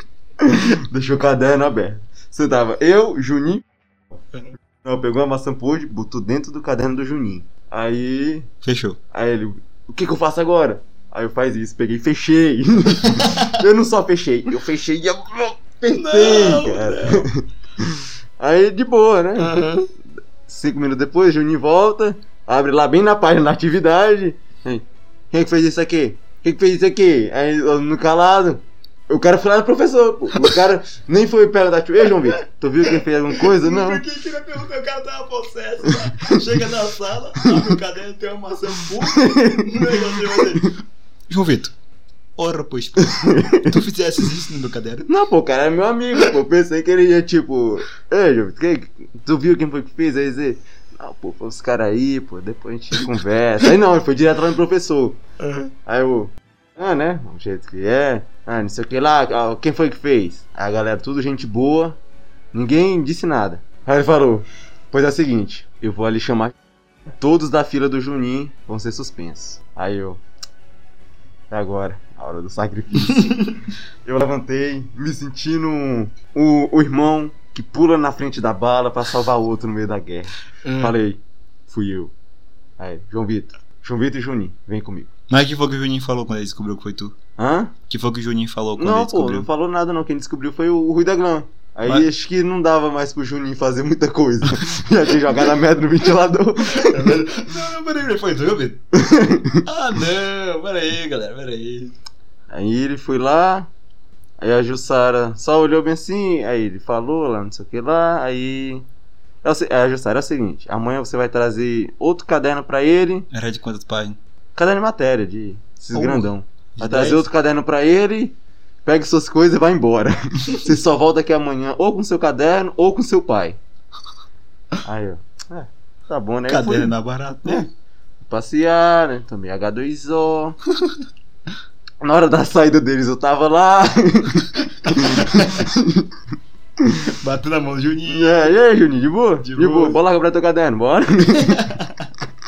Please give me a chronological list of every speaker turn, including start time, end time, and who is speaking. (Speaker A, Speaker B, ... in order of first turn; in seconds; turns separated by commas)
Speaker A: 0.4-3.6, Speaker A: 4.8-8.5, Speaker B: 8.6-9.0, Speaker A: 9.1-19.6, Speaker B: 13.1-13.5, Speaker B: 15.9-17.3, Speaker B: 19.4-19.9, Speaker A: 20.5-34.0, Speaker B: 32.9-41.7, Speaker A: 39.0-40.7, Speaker B: 42.4-45.1, Speaker A: 43.0-43.7, Speaker A: 45.1-55.2, Speaker B: 55.4-55.7, Speaker A: 55.9-62.0, Speaker A: 62.5-66.5, Speaker A: 67.2-70.2, Speaker A: 71.5-82.1, Speaker B: 73.0-73.5, Speaker B: 80.6-80.9, Speaker A: 82.8-85.1, Speaker B: 85.3-87.1, Speaker A: 87.4-87.7, Speaker B: 87.9-89.5, Speaker A: 88.8-97.2, Speaker B: 96.6-98.8, Speaker A: 98.9-99.6, Speaker B: 99.6-101.9, Speaker A: 102.5-103.7, Speaker A: 104.4-108.8, Speaker A: 109.4-113.3, Speaker B: 113.3-114.2, Speaker A: 114.5-123.6, Speaker B: 115.9-117.2, Speaker A: 124.8-127.7, Speaker B: 126.5-127.7, Speaker A: 128.2-130.6, Speaker A: 132.0-136.1, Speaker B: 134.8-135.7, Speaker A: 136.8-137.1, Speaker B: 137.1-138.5, Speaker A: 138.1-141.8, Speaker B: 139.4-140.0, Speaker B: 141.3-142.1